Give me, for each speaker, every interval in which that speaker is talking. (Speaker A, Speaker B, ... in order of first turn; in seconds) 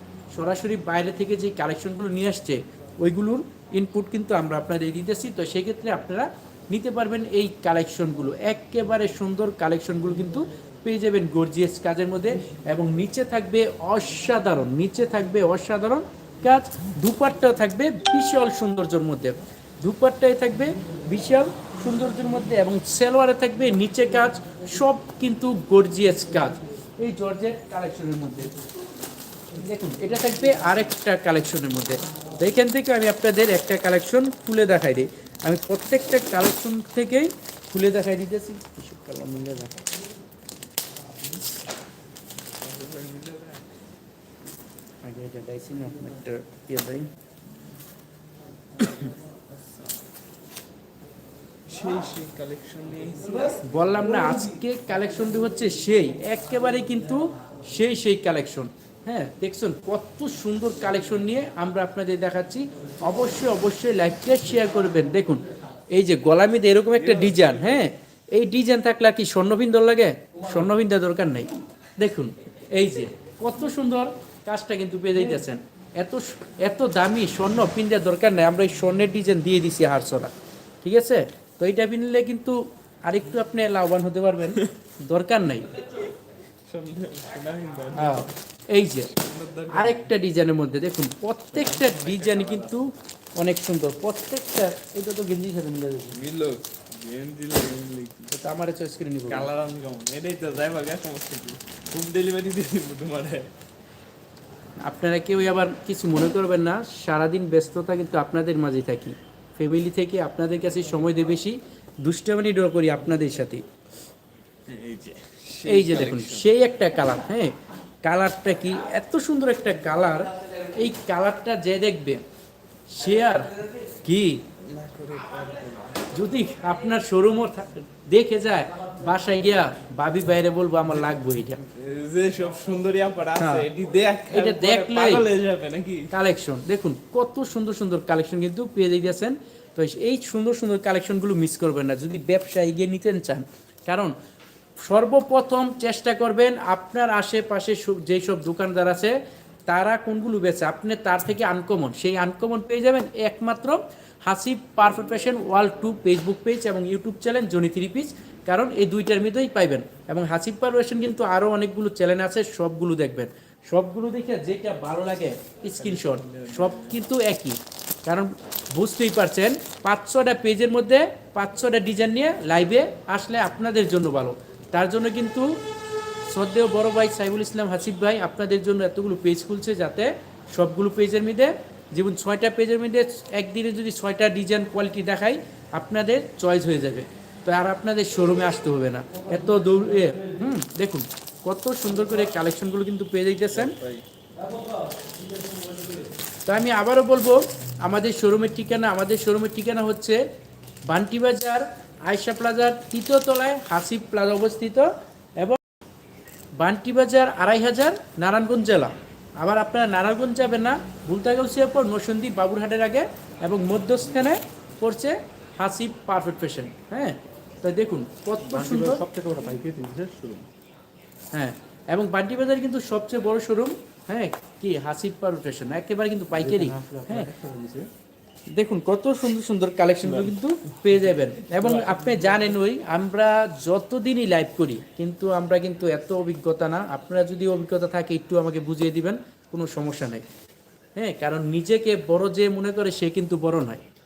Speaker A: 0.3-28.5, 29.6-39.8, 45.0-47.1, 53.6-85.8, 88.0-89.1, 89.7-96.2, 98.3-99.5, 104.8-113.6, 115.7-122.2, 122.9-124.5, 126.1-131.6, 133.4-133.7, 134.3-135.3, 136.1-144.2, 144.8-149.2, 149.7-175.5, 176.3-193.8, 196.5-200.2, 200.9-205.6, 206.6-219.0, 221.3-227.3, 228.5-240.2, 241.0-243.8
Speaker B: 42.6-43.7, 48.8-50.0, 51.7-53.6, 67.0-67.8, 86.7-88.3, 89.1-90.1, 91.5-92.8, 96.1-98.3, 99.3-103.5, 114.7-116.5, 124.6-126.0, 131.1-136.1, 165.8-167.0, 193.5-194.0, 230.1-230.3, 231.6-231.9
Speaker C: 218.5-220.5, 226.3-227.9